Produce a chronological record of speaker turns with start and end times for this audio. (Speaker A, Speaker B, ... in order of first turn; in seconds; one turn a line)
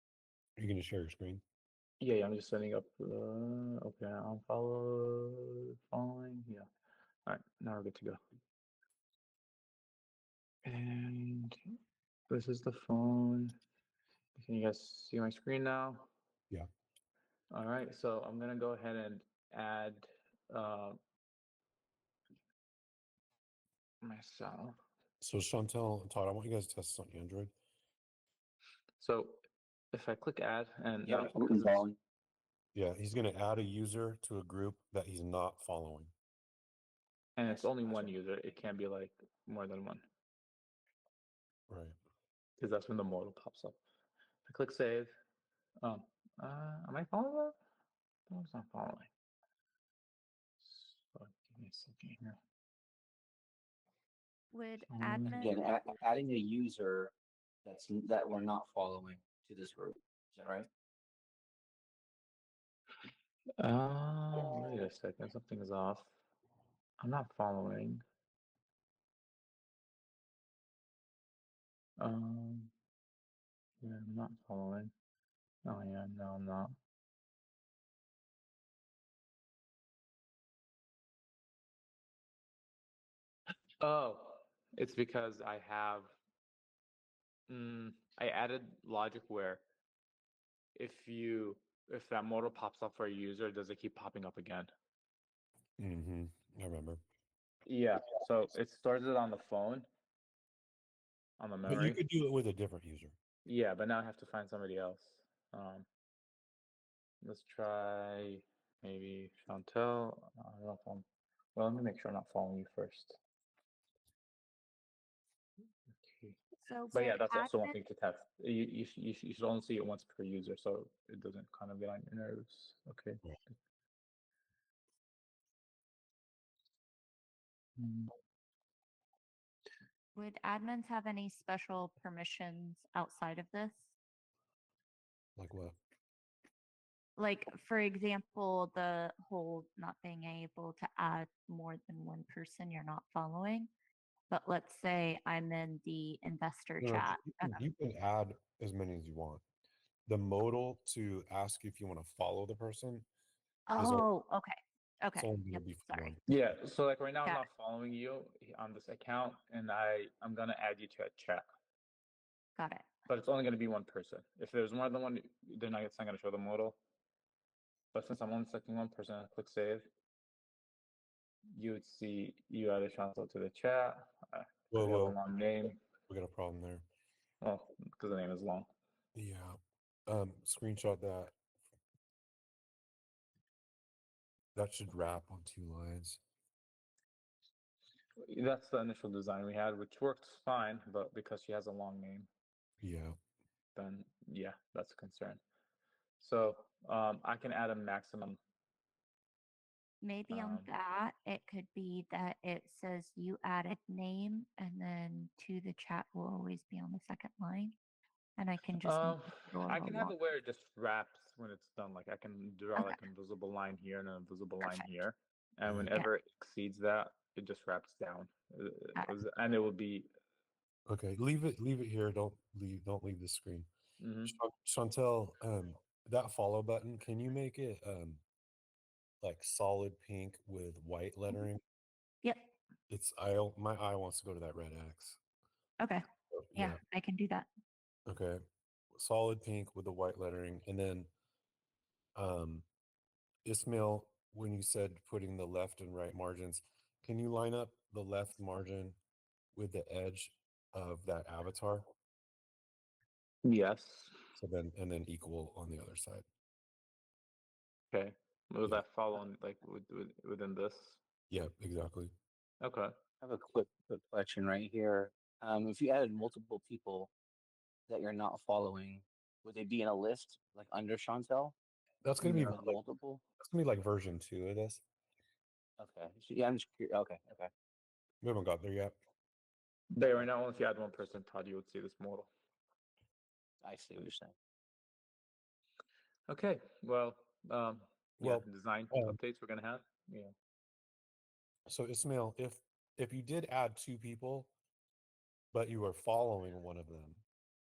Speaker A: 0.6-1.4
Speaker B: 2.0-6.7
Speaker B: 7.2-8.2
Speaker B: 10.6-11.6
Speaker B: 12.3-13.5
Speaker B: 14.3-16.1
Speaker B: 17.5-21.0
Speaker B: 24.0-24.7
Speaker A: 25.2-27.5
Speaker B: 29.0-29.4
Speaker B: 29.9-31.8
Speaker C: 31.0-32.0
Speaker A: 32.7-36.1
Speaker B: 37.4-40.0
Speaker A: 41.7-42.0
Speaker B: 42.6-43.8
Speaker B: 44.5-45.1
Speaker B: 45.8-47.6
Speaker B: 48.3-49.1
Speaker B: 50.6-52.4
Speaker D: 54.5-55.7
Speaker B: 54.9-55.4
Speaker C: 55.4-57.1
Speaker C: 57.6-60.7
Speaker B: 63.6-66.1
Speaker B: 67.0-68.0
Speaker B: 72.0-72.7
Speaker B: 73.8-74.9
Speaker B: 75.6-76.7
Speaker B: 83.8-86.1
Speaker B: 87.5-89.6
Speaker B: 90.8-94.7
Speaker A: 95.8-97.0
Speaker B: 97.6-99.9
Speaker B: 101.4-102.0
Speaker A: 101.7-103.1
Speaker B: 103.4-105.8
Speaker B: 107.2-113.2
Speaker B: 116.0-116.4
Speaker D: 116.6-117.8
Speaker B: 116.9-123.2
Speaker B: 127.8-128.1
Speaker D: 130.1-133.9
Speaker A: 135.4-135.8
Speaker D: 137.2-143.7
Speaker D: 144.3-147.6
Speaker A: 146.8-149.4
Speaker A: 150.1-153.1
Speaker D: 153.7-156.1
Speaker A: 153.8-154.1
Speaker A: 155.2-156.2
Speaker B: 156.3-161.4
Speaker D: 162.6-162.9
Speaker B: 163.1-166.8
Speaker B: 167.9-169.9
Speaker B: 171.5-175.8
Speaker A: 174.7-175.2
Speaker A: 176.1-176.8
Speaker B: 177.4-178.7
Speaker A: 179.1-181.3
Speaker A: 184.5-186.2
Speaker B: 188.2-192.3
Speaker A: 192.8-193.2
Speaker B: 193.7-195.4
Speaker B: 196.2-198.4
Speaker D: 200.0-207.8
Speaker B: 200.3-200.7
Speaker D: 208.4-210.2
Speaker B: 208.8-220.1
Speaker D: 214.6-214.9
Speaker A: 215.7-215.9
Speaker A: 220.8-223.7
Speaker B: 224.0-224.3
Speaker A: 224.3-228.2
Speaker A: 229.2-231.6
Speaker D: 232.2-232.5
Speaker A: 232.9-235.2
Speaker D: 235.8-237.5
Speaker A: 236.3-236.8
Speaker A: 238.1-238.4
Speaker A: 238.9-241.1
Speaker A: 242.2-242.7
Speaker A: 243.4-249.0
Speaker A: 249.5-251.9
Speaker B: 253.4-254.2
Speaker A: 254.3-256.2
Speaker B: 257.9-261.0
Speaker A: 261.3-262.1
Speaker B: 262.6-262.9
Speaker C: 263.2-267.1
Speaker C: 267.9-271.5
Speaker A: 272.0-272.8
Speaker C: 272.2-273.2
Speaker A: 273.4-274.8
Speaker C: 275.8-277.5
Speaker A: 278.2-279.0
Speaker B: 279.9-282.3
Speaker C: 283.6-284.3
Speaker B: 286.3-290.3
Speaker A: 288.2-289.2
Speaker A: 291.7-294.5
Speaker A: 295.5-297.2